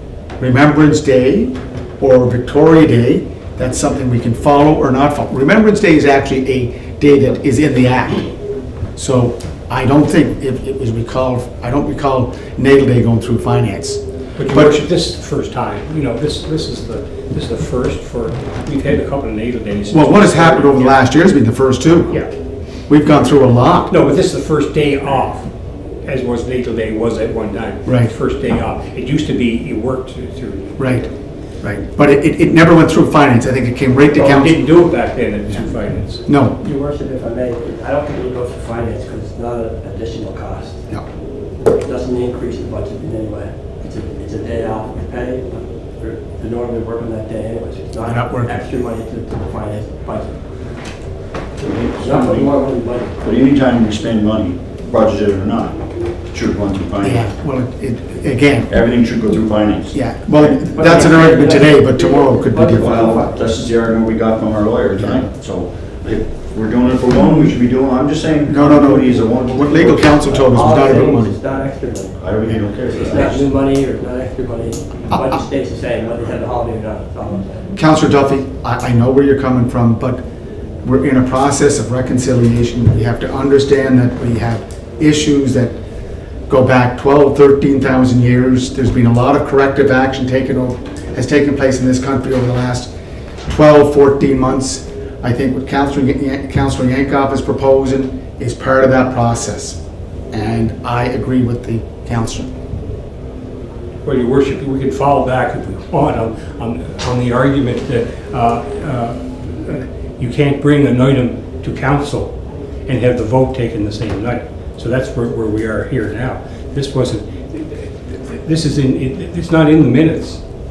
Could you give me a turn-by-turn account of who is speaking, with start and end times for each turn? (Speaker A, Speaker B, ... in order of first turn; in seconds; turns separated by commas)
Speaker A: 0.4-8.3, Speaker A: 8.9-14.8, Speaker B: 14.4-21.1, Speaker A: 19.9-22.1, Speaker A: 22.9-23.9, Speaker B: 23.9-25.5, Speaker B: 26.0-30.9, Speaker A: 27.9-28.1, Speaker A: 30.8-31.1, Speaker A: 31.6-34.6, Speaker B: 34.1-36.2, Speaker A: 36.2-36.6, Speaker C: 36.5-40.9, Speaker C: 41.6-50.4, Speaker A: 48.0-48.6, Speaker D: 51.6-52.5, Speaker C: 52.0-53.1, Speaker D: 53.2-55.8, Speaker D: 56.3-57.3, Speaker A: 57.0-58.7, Speaker D: 58.7-60.8, Speaker A: 59.9-63.1, Speaker C: 60.7-63.5, Speaker D: 62.8-70.7, Speaker A: 68.5-71.3, Speaker C: 70.2-72.2, Speaker D: 72.2-73.5, Speaker C: 72.8-77.7, Speaker A: 75.1-75.4, Speaker A: 77.8-80.2, Speaker A: 80.8-85.7, Speaker A: 86.5-92.9, Speaker A: 93.5-99.8, Speaker A: 100.3-102.5, Speaker B: 104.0-112.3, Speaker B: 112.8-120.4